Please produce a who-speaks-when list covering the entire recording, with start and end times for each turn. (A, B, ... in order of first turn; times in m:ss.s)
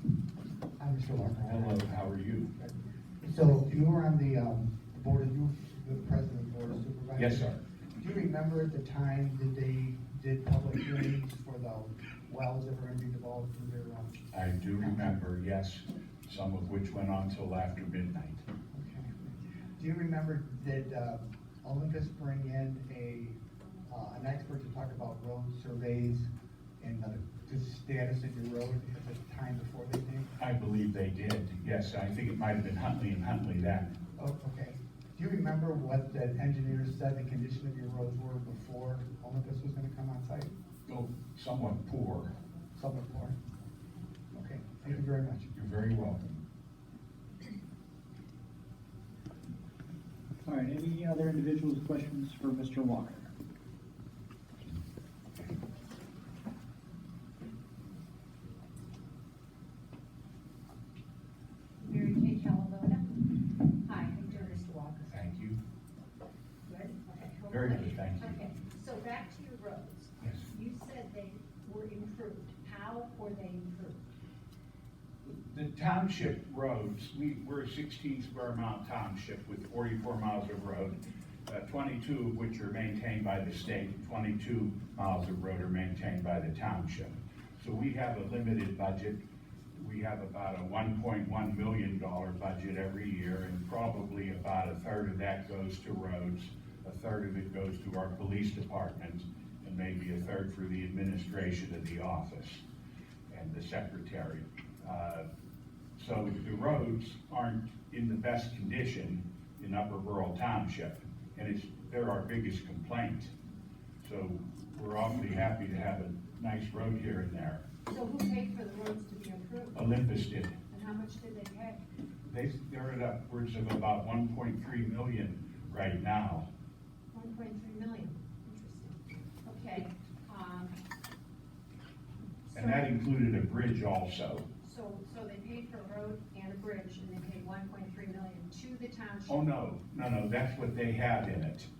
0:00.8-0:14.2 A
0:01.4-0:02.5 B
0:07.2-0:07.6 B
0:14.3-0:18.4 B
0:14.8-0:15.1 A
0:18.7-0:30.3 A
0:30.4-0:33.9 B
0:34.1-0:40.5 A
0:40.9-0:42.3 B
0:42.7-0:43.4 A
0:44.3-0:45.5 A
0:45.5-0:46.4 B
0:50.4-0:53.3 C
1:01.8-1:03.2 D
1:03.8-1:05.2 D
1:05.1-1:05.6 B
1:06.6-1:14.0 D
1:07.5-1:08.4 B
1:15.2-1:29.2 B
1:29.7-1:42.6 B
1:43.3-1:45.2 B
1:46.0-1:53.3 B
1:54.0-1:57.6 B
1:57.9-1:59.9 D
1:59.7-2:00.6 B
2:00.7-2:01.8 D
2:02.2-2:06.5 B
2:07.1-2:10.7 D
2:12.5-2:12.9 D
2:12.5-2:14.4 B
2:14.6-2:19.5 D
2:19.3-2:21.7 B